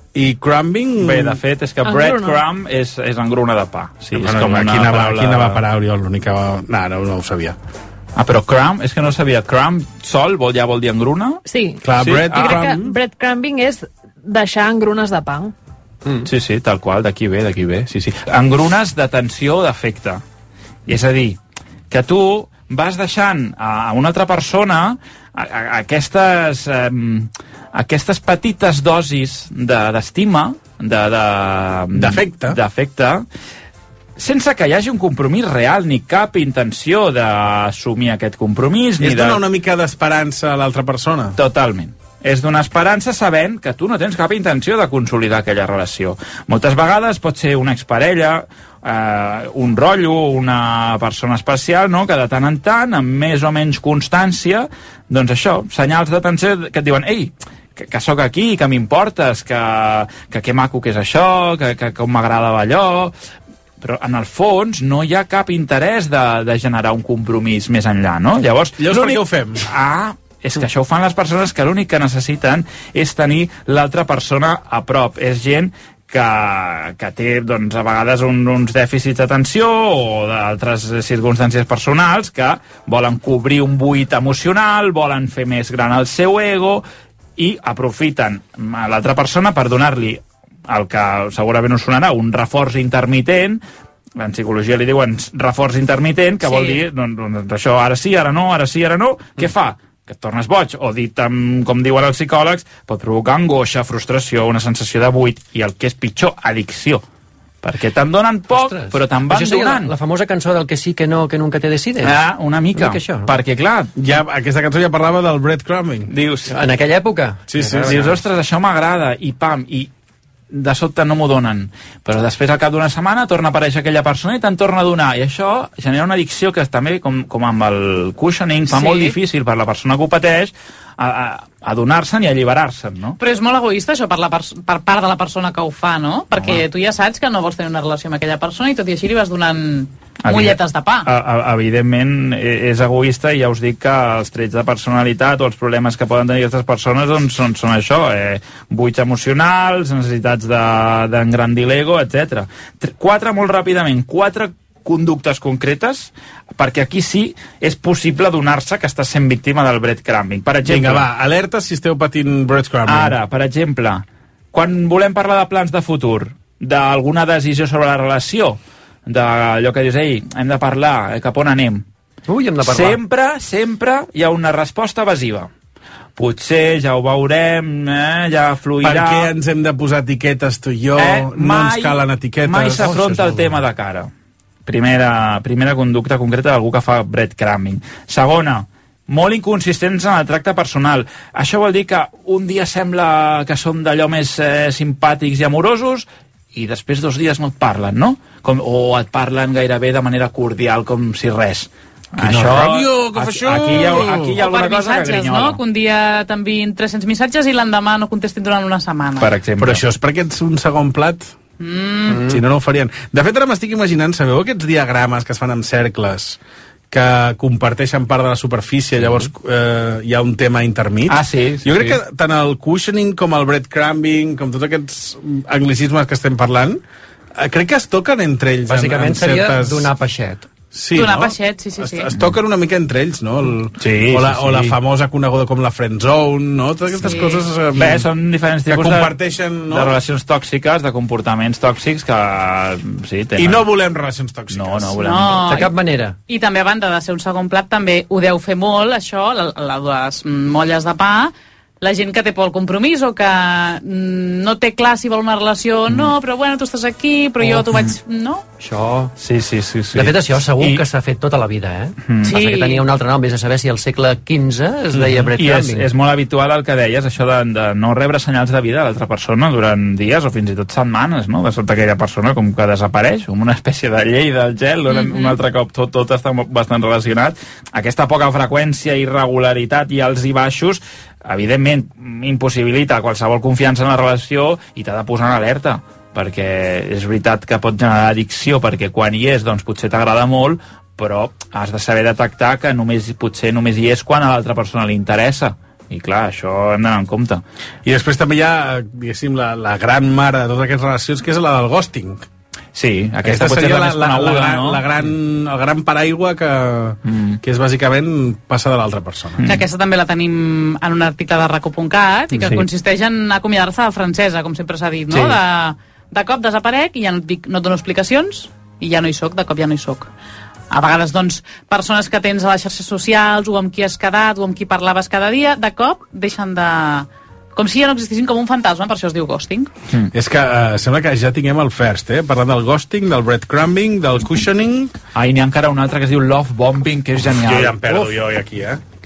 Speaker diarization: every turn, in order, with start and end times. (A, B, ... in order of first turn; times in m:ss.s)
0:00.1-0:01.4 A
0:01.0-0:05.6 B
0:01.8-0:02.4 C
0:04.1-0:07.6 A
0:08.2-0:11.4 B
0:11.4-0:15.5 C
0:11.8-0:12.9 A
0:12.0-0:12.7 B
0:16.2-0:20.2 B
0:20.9-0:21.4 B
0:21.9-0:33.2 B
0:31.9-0:32.6 A
0:34.2-0:39.4 B
0:39.0-0:41.4 A
0:41.4-1:03.1 B
1:03.8-1:26.8 B
1:08.8-1:09.7 A
1:27.4-1:33.6 B
1:34.2-1:47.0 B
1:36.4-1:36.8 D
1:47.6-1:49.9 B
1:48.5-1:52.2 E
1:52.0-1:53.9 B
1:52.7-1:53.3 E
1:54.0-1:56.1 A
1:56.1-1:56.5 B
1:56.5-1:58.2 E
1:57.5-1:58.0 A
1:57.8-1:59.9 B
2:00.5-2:13.2 B
2:08.7-2:09.2 D
2:13.2-2:21.1 D
2:16.3-2:16.6 B
2:20.2-2:41.1 B
2:40.6-2:43.2 A
2:42.9-2:51.8 B
2:52.3-2:53.0 E
2:52.6-2:55.5 B
2:56.2-2:59.3 B
2:58.8-3:02.9 A
3:01.0-3:04.1 B
3:02.8-3:03.6 E
3:04.6-3:25.6 B
3:22.2-3:24.4 A
3:24.4-3:29.3 D
3:29.2-3:29.8 B
3:29.6-3:31.3 A
3:31.6-3:32.3 D
3:32.1-3:32.4 E
3:32.2-3:36.4 A
3:36.9-3:46.8 A
3:41.1-3:42.0 B
3:47.4-3:49.9 A
3:48.7-3:50.5 E
3:50.7-3:58.0 A
3:50.9-3:52.1 D
3:53.8-3:54.8 B
3:57.1-3:57.5 D
3:57.7-3:59.2 B
3:58.7-4:00.0 A
3:59.7-4:03.7 B
4:03.4-4:05.0 A
4:04.5-4:05.5 B
4:05.0-4:05.7 D
4:05.5-4:06.2 E
4:06.3-4:18.4 D
4:17.7-4:18.0 B
4:18.6-4:19.1 E
4:19.2-4:20.8 B
4:19.9-4:25.9 E
4:22.1-4:22.4 B
4:22.2-4:22.8 D
4:24.9-4:57.4 B
4:34.9-4:35.4 D
4:57.8-5:02.2 A
5:02.7-5:04.8 B
5:03.2-5:09.4 A
5:07.0-5:07.4 B
5:09.4-5:20.1 D
5:12.3-5:12.7 B
5:15.1-5:15.4 B
5:20.7-5:29.7 D
5:30.1-5:34.9 A
5:35.1-5:37.8 B
5:37.3-5:38.8 A